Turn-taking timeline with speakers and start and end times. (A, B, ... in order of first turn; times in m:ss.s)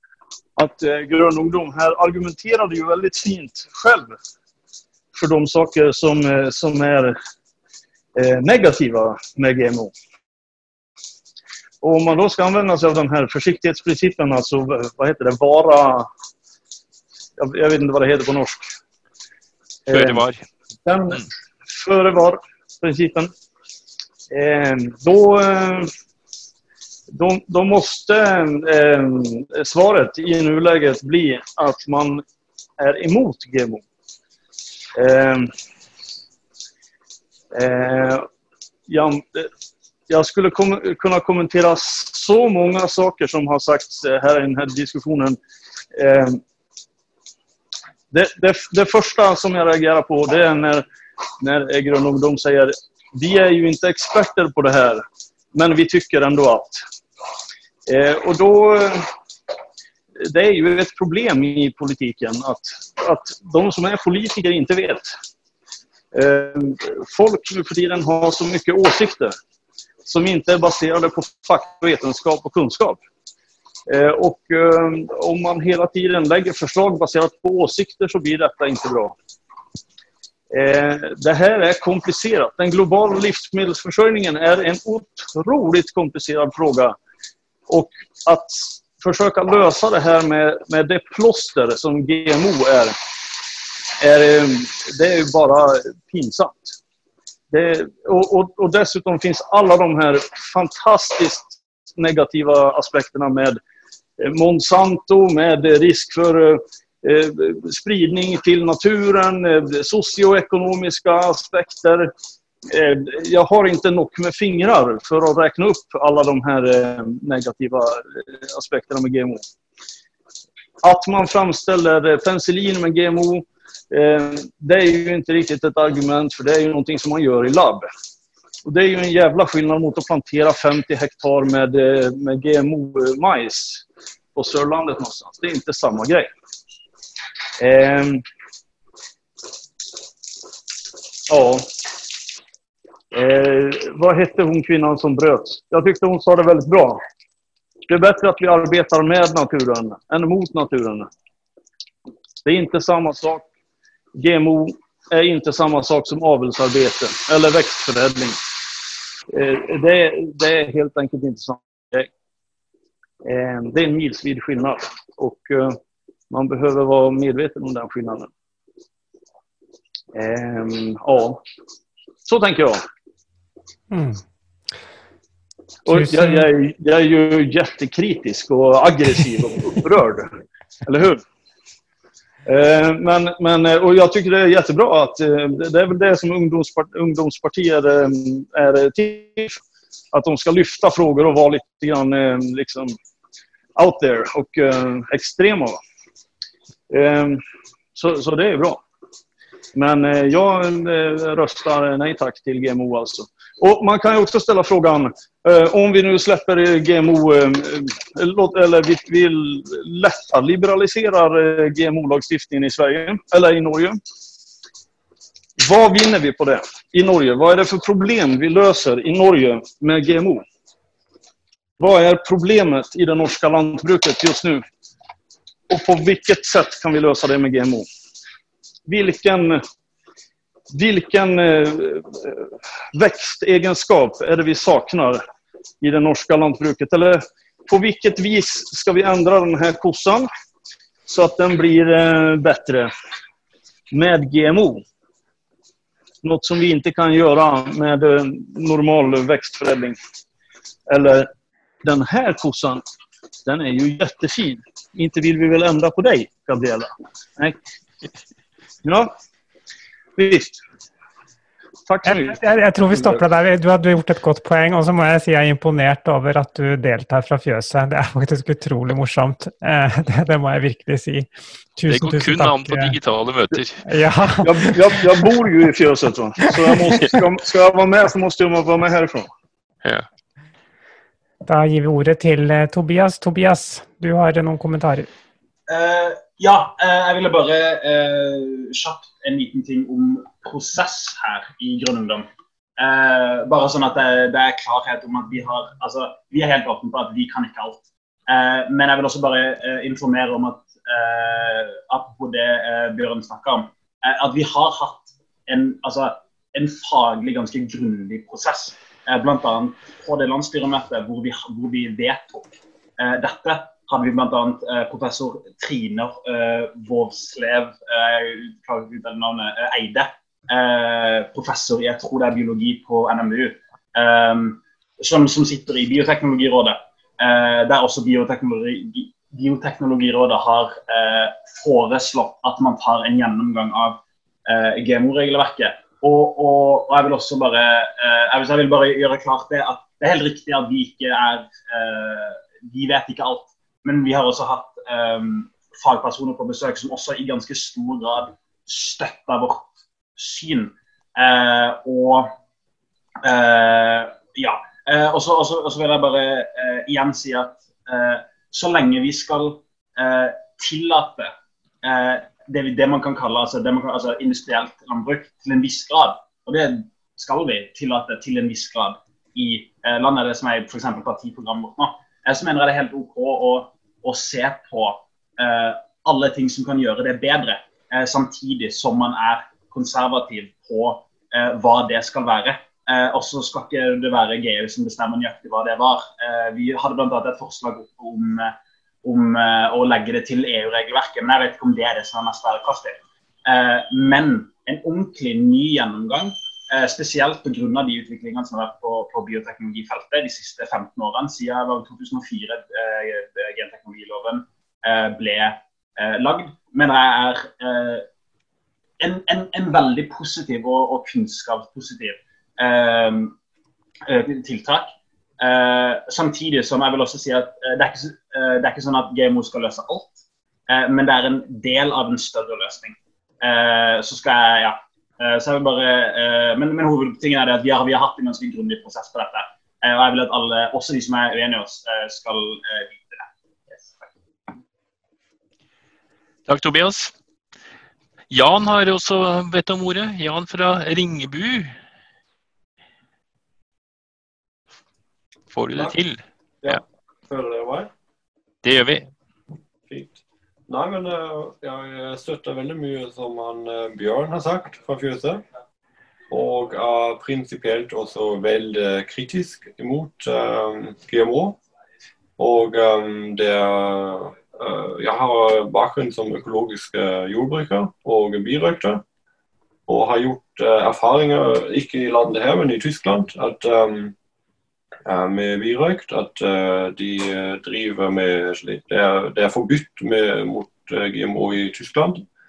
0:00.6-0:04.1 A
0:05.1-0:07.1 A
0:08.2-0:09.9 A
0:11.8-0:16.1 A
0:17.4-0:18.7 A
0:19.9-0:20.3 A
0:19.9-0:20.4 B
0:20.8-0:23.3 A
0:24.3-0:25.9 A
0:27.1-0:32.2 A
0:32.8-0:33.8 A
0:35.0-0:35.5 A
0:37.5-0:38.3 A
0:38.9-0:39.5 A
0:40.1-0:45.4 A
0:45.9-0:46.4 A
0:48.1-0:50.8 A
0:51.4-0:56.8 A
0:57.9-0:59.1 A
1:00.2-1:05.1 A
1:06.1-1:09.3 A
1:10.0-1:13.0 A
1:13.9-1:19.2 A
1:20.5-1:27.0 A
1:27.7-1:33.0 A
1:34.0-1:36.8 A
1:37.5-1:43.6 A
1:44.2-1:52.1 A
1:52.7-1:59.4 A
2:00.8-2:07.9 A
2:08.6-2:16.3 A
2:17.6-2:18.2 A
2:21.3-2:21.7 A
2:23.1-2:27.0 A
2:27.9-2:31.1 A
2:32.4-2:33.5 A
2:34.2-2:38.4 A
2:39.3-2:42.1 A
2:43.2-2:45.8 A
2:46.3-2:48.3 A
2:50.1-2:51.4 A
2:52.2-2:52.8 A
2:53.9-2:54.2 C
2:55.8-3:01.2 A
2:55.9-2:56.4 C
3:02.4-3:09.6 A
3:10.1-3:12.9 A
3:13.8-3:15.8 A
3:16.9-3:17.4 A
3:17.9-3:18.8 A
3:19.7-3:34.0 A
3:35.6-3:40.4 A
3:41.8-3:44.6 A
3:45.7-3:47.9 A
3:48.9-3:49.6 A
3:50.7-3:55.2 A
3:55.8-4:00.3 A
4:01.1-4:02.9 A
4:03.9-4:04.8 A
4:06.2-4:10.0 A
4:10.9-4:11.3 A
4:11.8-4:12.8 A
4:13.4-4:17.6 A
4:18.8-4:19.1 A
4:20.2-4:20.6 A
4:21.9-4:22.4 A
4:22.0-4:32.9 C
4:22.9-4:23.2 A
4:31.9-4:33.8 B
4:33.8-4:34.7 C
4:34.4-4:39.3 A
4:41.4-4:45.1 C
4:45.7-4:52.3 D
4:52.8-5:52.3 D
5:53.2-6:01.3 D
6:01.8-6:48.1 D
6:49.0-6:53.4 D
6:54.1-7:14.1 D
7:16.5-7:17.1 B
7:18.3-7:21.7 B
7:25.5-7:26.8 B
7:26.6-7:27.9 E
7:28.6-7:29.1 B
7:29.9-7:35.4 E
7:36.3-7:41.6 E
7:42.4-7:49.0 E
7:49.9-7:54.1 E
7:55.0-8:02.2 E